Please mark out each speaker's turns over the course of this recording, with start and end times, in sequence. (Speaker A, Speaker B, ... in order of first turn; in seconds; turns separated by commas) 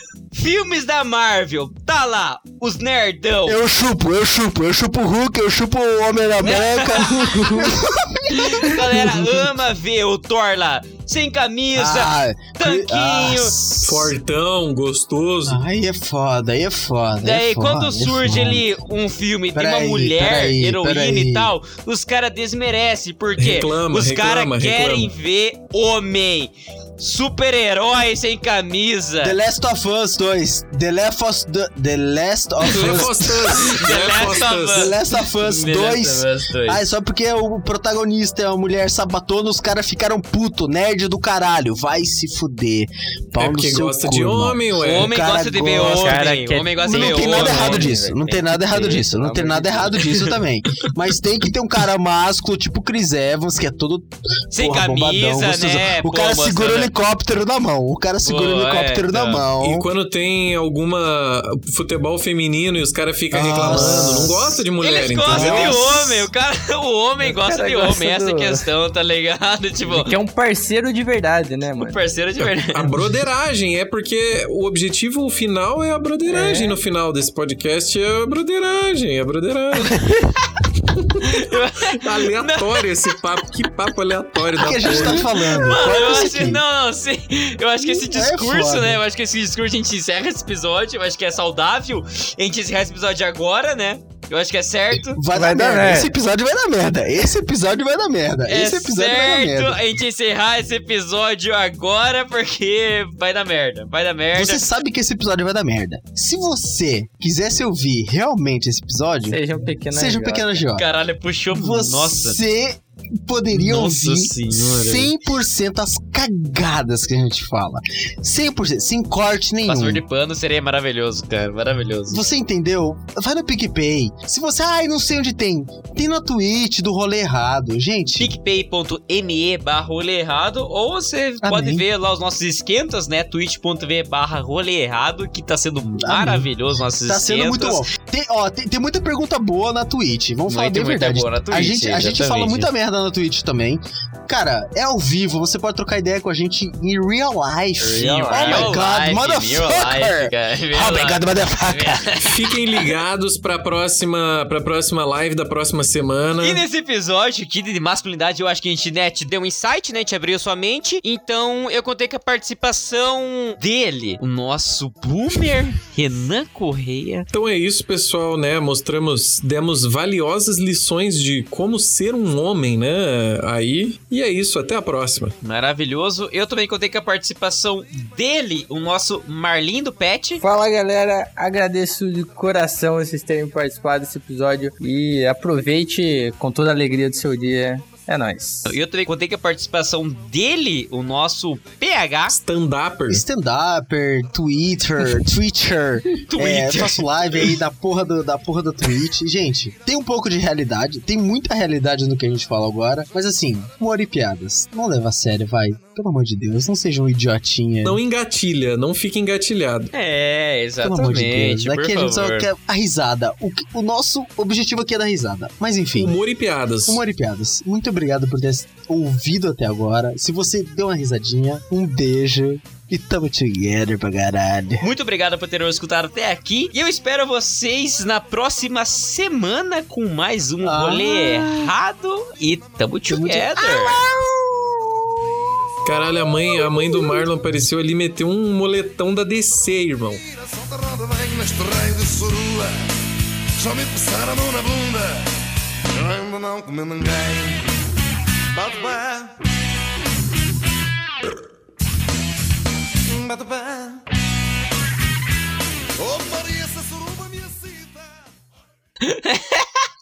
Speaker A: 0.3-3.6, Speaker B: 3.5-9.6, Speaker A: 6.4-7.8, Speaker A: 8.3-13.6, Speaker B: 11.7-14.1, Speaker C: 13.8-15.6, Speaker B: 15.4-18.7, Speaker A: 17.2-29.4, Speaker B: 19.5-21.5, Speaker C: 23.4-25.1, Speaker B: 29.2-33.7, Speaker A: 32.6-36.8, Speaker C: 32.7-34.9, Speaker B: 34.7-46.2, Speaker C: 43.3-45.1, Speaker A: 44.8-47.9, Speaker D: 45.9-50.0, Speaker B: 46.8-59.9, Speaker A: 50.0-50.3, Speaker A: 54.5-56.9, Speaker A: 58.2-59.4, Speaker C: 59.6-66.0, Speaker B: 63.3-64.6, Speaker A: 64.8-70.1, Speaker B: 65.2-66.2, Speaker D: 67.2-68.7, Speaker D: 69.8-72.0, Speaker A: 71.8-72.9, Speaker C: 72.7-80.0, Speaker D: 76.3-76.8, Speaker C: 80.9-81.3, Speaker A: 81.2-82.9, Speaker C: 81.9-85.3, Speaker B: 84.6-86.6, Speaker A: 84.7-95.2, Speaker B: 87.8-89.0, Speaker B: 95.1-99.8, Speaker D: 95.3-96.1, Speaker A: 98.5-104.6, Speaker B: 104.3-109.4, Speaker D: 109.2-110.6, Speaker B: 109.9-110.8, Speaker A: 110.8-112.4, Speaker B: 111.5-120.0, Speaker A: 113.5-115.1, Speaker A: 119.7-122.2, Speaker B: 122.1-128.3, Speaker A: 128.2-137.9, Speaker B: 131.4-131.8, Speaker B: 136.0-136.5, Speaker B: 137.0-152.2, Speaker A: 140.5-142.7, Speaker D: 147.8-148.8, Speaker A: 148.2-152.4, Speaker C: 152.2-156.6, Speaker A: 156.4-167.3, Speaker C: 167.3-175.3, Speaker A: 175.4-180.4, Speaker D: 180.4-188.7, Speaker A: 188.7-192.4, Speaker C: 192.3-193.2, Speaker B: 193.1-208.0, Speaker A: 196.3-197.6, Speaker C: 207.8-209.9, Speaker A: 209.9-212.5, Speaker B: 210.8-216.1, Speaker C: 215.9-217.0, Speaker B: 216.9-224.9, Speaker A: 224.8-234.0, Speaker B: 230.6-231.7, Speaker B: 233.1-234.7, Speaker C: 235.8-240.2, Speaker E: 236.0-236.3, Speaker E: 240.1-242.9, Speaker E: 243.6-245.3, Speaker E: 245.9-247.7, Speaker E: 248.5-249.4, Speaker E: 253.1-254.0, Speaker E: 256.0-258.4, Speaker A: 259.0-259.7